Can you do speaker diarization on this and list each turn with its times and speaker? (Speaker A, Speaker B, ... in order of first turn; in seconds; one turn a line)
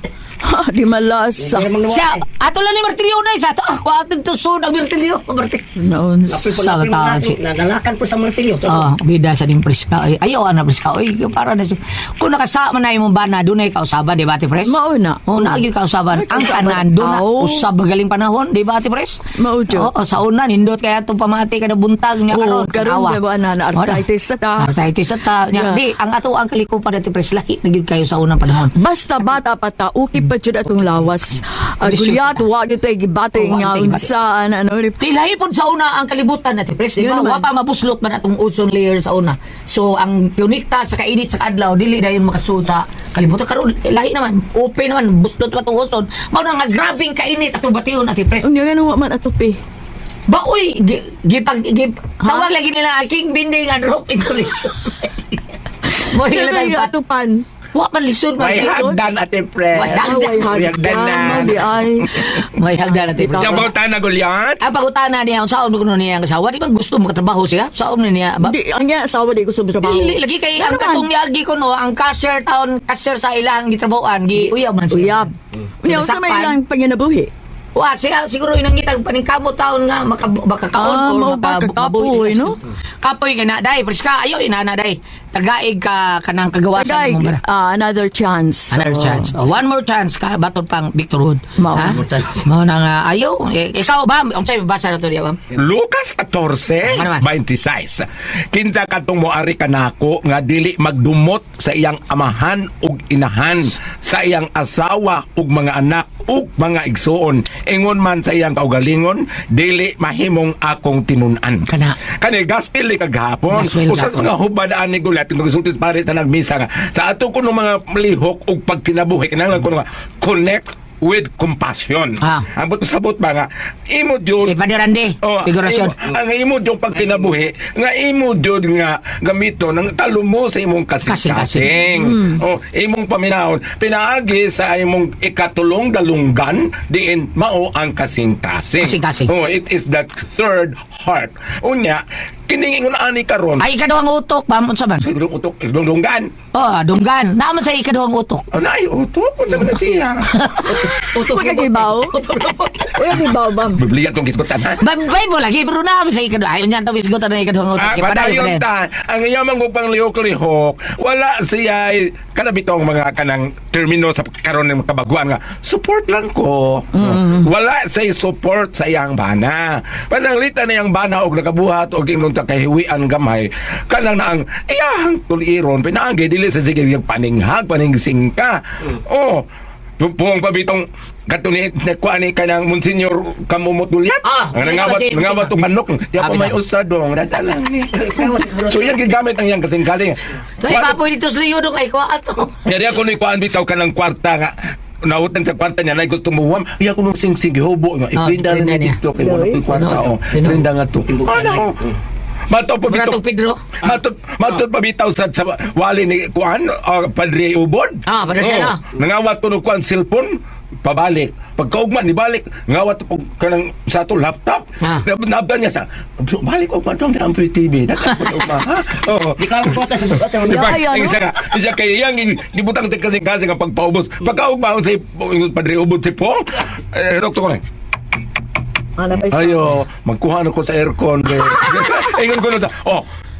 Speaker A: 0.4-1.8
Speaker B: 1.4-2.0
Speaker C: 1.9-5.6
Speaker A: 5.8-6.6
Speaker B: 6.3-8.8
Speaker C: 6.5-7.4
Speaker C: 8.6-23.2
Speaker A: 14.6-15.6
Speaker A: 16.1-17.7
Speaker A: 19.4-19.9
Speaker A: 22.3-24.7
Speaker C: 23.7-24.0
Speaker C: 24.6-28.7
Speaker A: 25.5-25.8
Speaker A: 28.8-35.0
Speaker C: 31.8-32.5
Speaker C: 33.3-34.1
Speaker C: 35.0-48.5
Speaker A: 37.0-37.4
Speaker A: 48.4-49.6
Speaker C: 50.3-56.9
Speaker A: 52.2-52.5
Speaker A: 56.0-57.4
Speaker C: 57.7-58.8
Speaker D: 58.4-61.9
Speaker A: 58.5-59.0
Speaker C: 59.7-60.4
Speaker A: 59.9-62.2
Speaker C: 62.2-63.7
Speaker A: 63.0-63.5
Speaker D: 63.3-64.6
Speaker C: 64.6-68.5
Speaker A: 68.4-71.1
Speaker C: 69.8-75.3
Speaker A: 74.9-75.3
Speaker A: 75.8-77.3
Speaker C: 75.8-76.5
Speaker C: 77.7-87.4
Speaker A: 80.8-82.5
Speaker A: 86.7-89.3
Speaker C: 88.7-95.4
Speaker A: 91.6-92.0
Speaker D: 95.5-111.6
Speaker C: 96.8-97.2
Speaker C: 111.7-112.0
Speaker D: 112.2-124.6
Speaker C: 113.5-114.3
Speaker C: 122.2-122.5
Speaker C: 124.4-125.9
Speaker D: 125.2-143.6
Speaker C: 131.0-131.7
Speaker C: 138.8-139.3
Speaker C: 143.6-145.1
Speaker D: 145.0-146.3
Speaker C: 146.5-148.4
Speaker D: 148.5-150.3
Speaker C: 150.4-150.8
Speaker A: 150.9-153.8
Speaker B: 151.2-152.5
Speaker D: 153.1-154.8
Speaker C: 154.8-158.6
Speaker D: 157.8-179.4
Speaker D: 180.0-191.0
Speaker C: 184.2-185.5
Speaker C: 186.2-186.6
Speaker C: 190.6-192.6
Speaker D: 192.6-194.5
Speaker D: 195.0-201.9
Speaker C: 198.2-199.0
Speaker A: 199.2-199.6
Speaker C: 199.7-200.6
Speaker D: 202.5-203.2
Speaker C: 202.9-203.6
Speaker D: 203.8-210.3
Speaker C: 208.1-208.8
Speaker D: 210.8-227.6
Speaker B: 219.4-220.5
Speaker A: 220.4-221.2
Speaker A: 229.0-229.6
Speaker D: 229.3-233.0